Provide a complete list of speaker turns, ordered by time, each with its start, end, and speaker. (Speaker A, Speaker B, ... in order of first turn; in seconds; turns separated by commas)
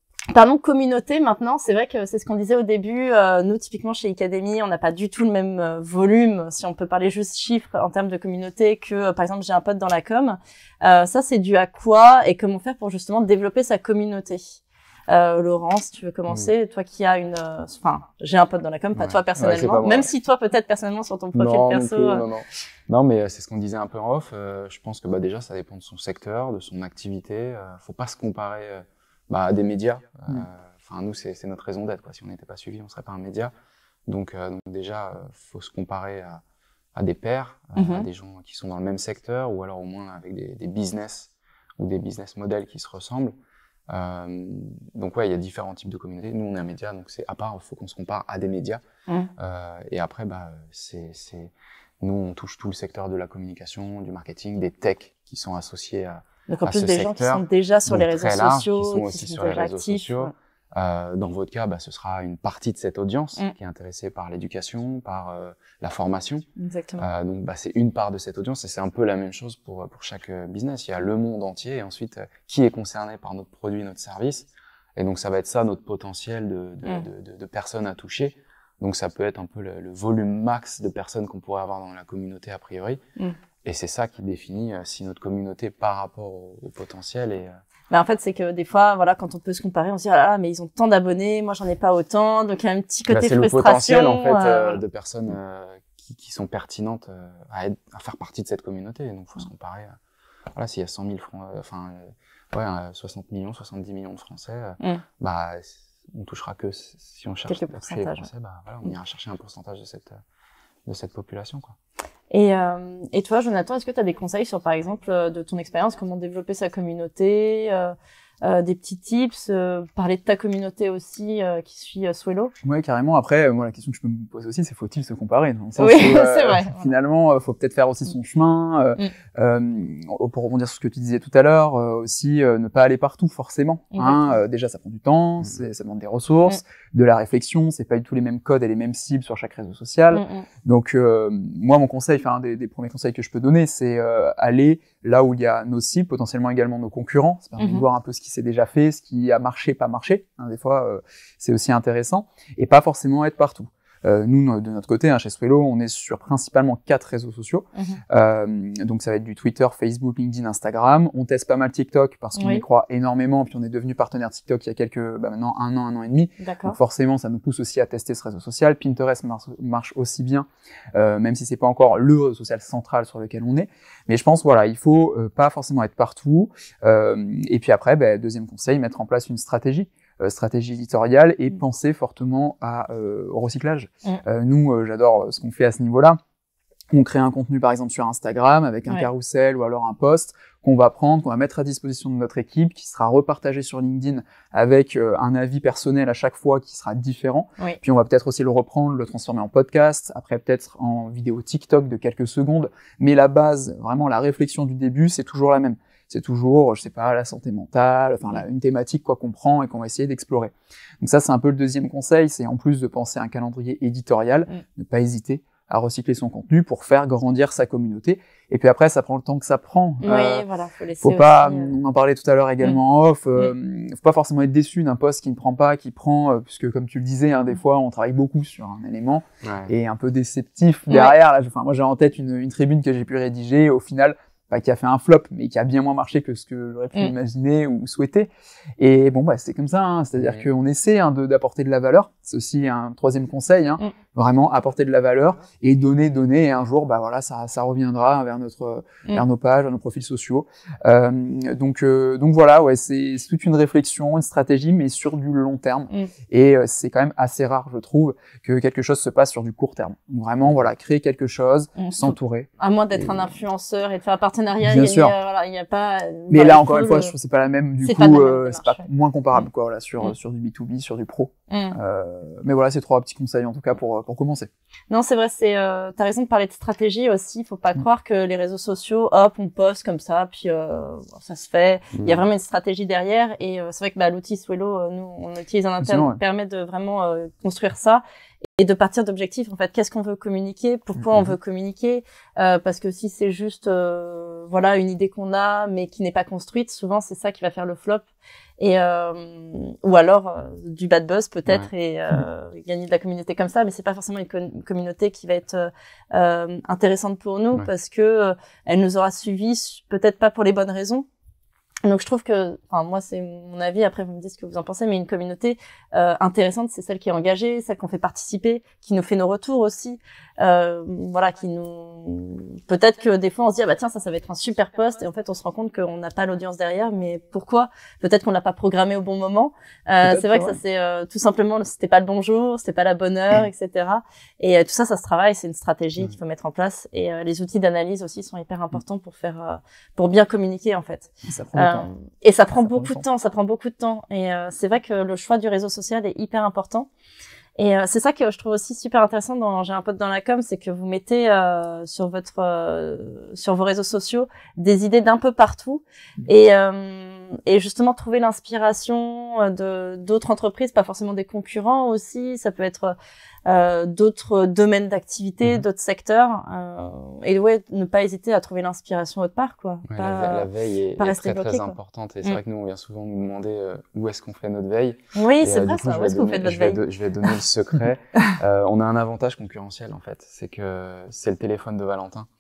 Speaker A: 0.3-14.6, Speaker A: 15.1-22.2, Speaker B: 18.9-20.1, Speaker B: 21.3-33.5, Speaker B: 34.1-36.4, Speaker B: 37.0-43.4, Speaker A: 37.8-38.1, Speaker B: 43.9-48.8, Speaker B: 49.4-66.5, Speaker A: 56.5-60.3, Speaker A: 66.6-67.1, Speaker B: 67.0-83.0, Speaker B: 83.6-87.6, Speaker A: 87.9-94.8, Speaker B: 93.1-100.0, Speaker B: 100.5-110.2, Speaker A: 107.5-108.3, Speaker B: 110.9-111.8, Speaker A: 112.3-122.5, Speaker C: 122.6-186.2, Speaker A: 125.8-126.9, Speaker A: 133.9-134.4, Speaker A: 140.1-140.5, Speaker A: 147.6-147.8, Speaker A: 162.4-162.6, Speaker A: 166.4-166.8, Speaker C: 186.9-220.4, Speaker A: 220.0-221.7, Speaker C: 221.0-263.3, Speaker B: 229.4-229.7, Speaker A: 230.9-231.2, Speaker B: 240.2-240.5, Speaker A: 261.8-267.1, Speaker C: 264.6-265.1, Speaker C: 266.3-274.5, Speaker A: 267.8-269.5, Speaker A: 271.5-271.8, Speaker A: 274.9-288.0, Speaker B: 281.9-282.3, Speaker C: 285.8-286.2, Speaker A: 288.6-298.1, Speaker A: 298.6-311.1, Speaker A: 311.9-346.9, Speaker C: 330.0-330.6, Speaker C: 341.2-341.9, Speaker C: 342.5-343.1, Speaker A: 347.6-362.9, Speaker A: 363.5-372.4, Speaker B: 369.9-382.3, Speaker A: 375.1-377.3